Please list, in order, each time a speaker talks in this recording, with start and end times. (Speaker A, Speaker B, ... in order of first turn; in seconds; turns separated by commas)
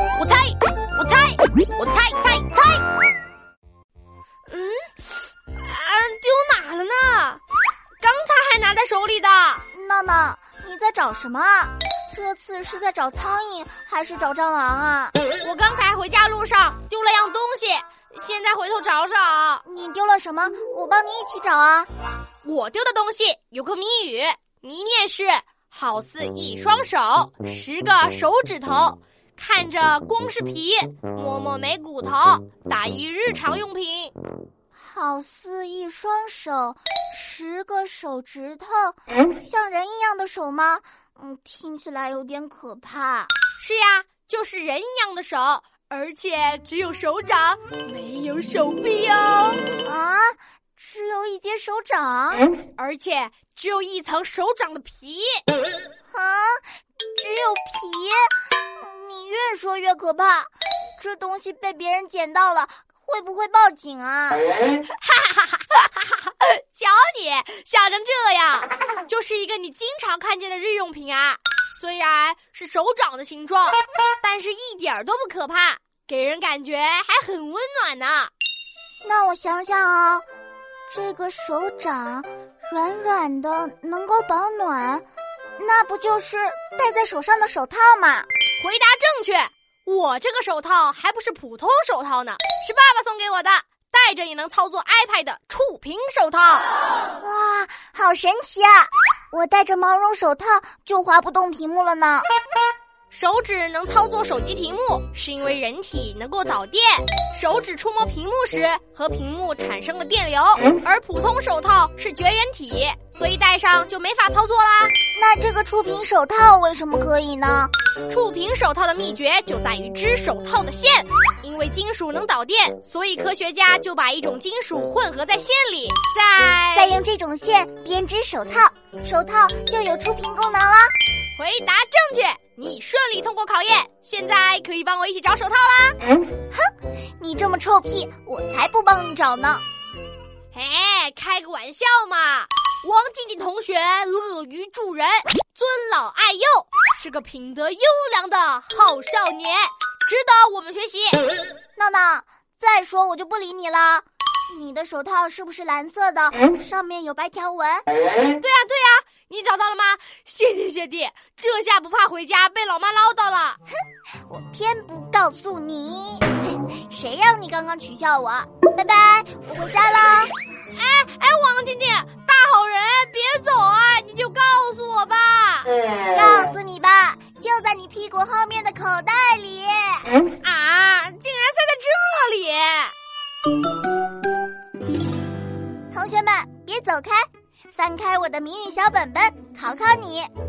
Speaker A: 0.2-2.8, Speaker A: 4.5-7.4, Speaker A: 8.0-9.6, Speaker B: 9.7-15.2, Speaker A: 15.4-19.6, Speaker B: 19.6-21.9, Speaker A: 22.4-34.1, Speaker B: 34.8-43.3, Speaker A: 43.6-49.7, Speaker B: 49.8-52.5, Speaker A: 52.8-55.4, Speaker B: 56.1-56.6, Speaker B: 57.1-64.5, Speaker A: 64.9-78.3, Speaker B: 79.0-80.2, Speaker B: 80.9-85.0, Speaker B: 85.6-88.3, Speaker A: 88.6-96.6, Speaker B: 97.2-102.3, Speaker A: 103.1-114.9, Speaker B: 115.2-117.7, Speaker A: 118.1-127.0, Speaker B: 126.7-130.9, Speaker A: 131.4-136.0, Speaker B: 136.5-139.6, Speaker A: 140.5-151.2, Speaker B: 151.8-157.9, Speaker A: 158.4-163.6, Speaker B: 164.3-170.3, Speaker A: 170.7-175.7, Speaker B: 176.1-180.1, Speaker A: 180.4-182.9, Speaker B: 185.9-190.3